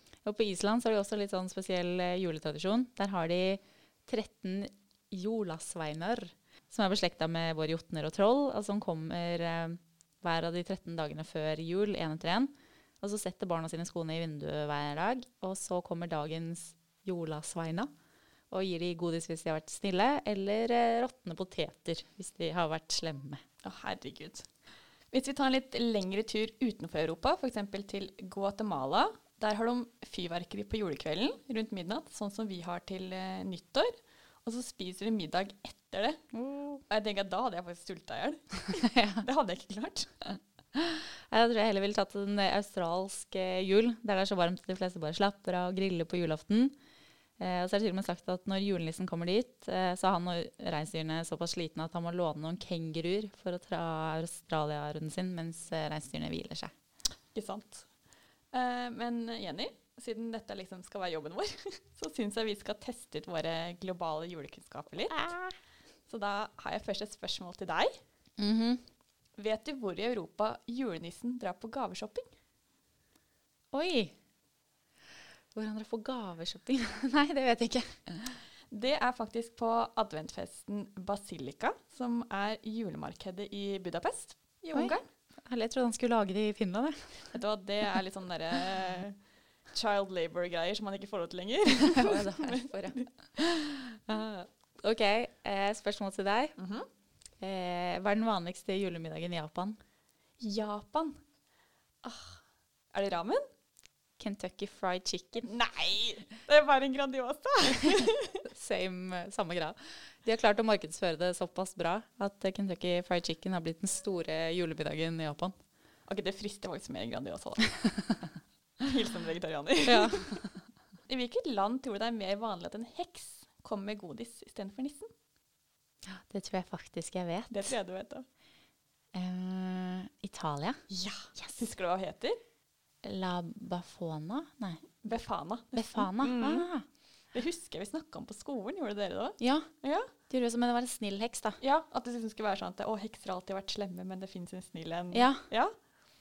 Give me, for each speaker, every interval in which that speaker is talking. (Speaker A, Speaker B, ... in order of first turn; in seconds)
Speaker A: 0.2-17.9, 18.5-23.4, 36.3-36.8, 40.3-46.7, 47.4-56.7, 65.1-65.5, 68.4-68.8, 73.7-74.1, 75.5-78.4, 84.7-87.4, 92.0-96.6, 97.4-99.8, 104.2-105.5, 108.5-115.5, 119.8-120.6, 126.1-127.7, 129.1-130.8, 133.0-136.8, 139.4-141.6, 145.1-145.4
Speaker B: 23.6-24.5, 25.1-36.3, 36.9-40.1, 57.3-57.9, 58.5-65.2, 66.0-67.9, 69.4-72.3, 78.7-85.0, 87.3-89.2, 89.7-93.1, 96.6-96.9, 100.4-101.2, 102.0-103.4, 105.4-108.4, 116.1-117.8, 118.8-120.4, 121.1-125.1, 127.5-128.2, 130.9-132.4, 135.0-140.1, 141.6-145.8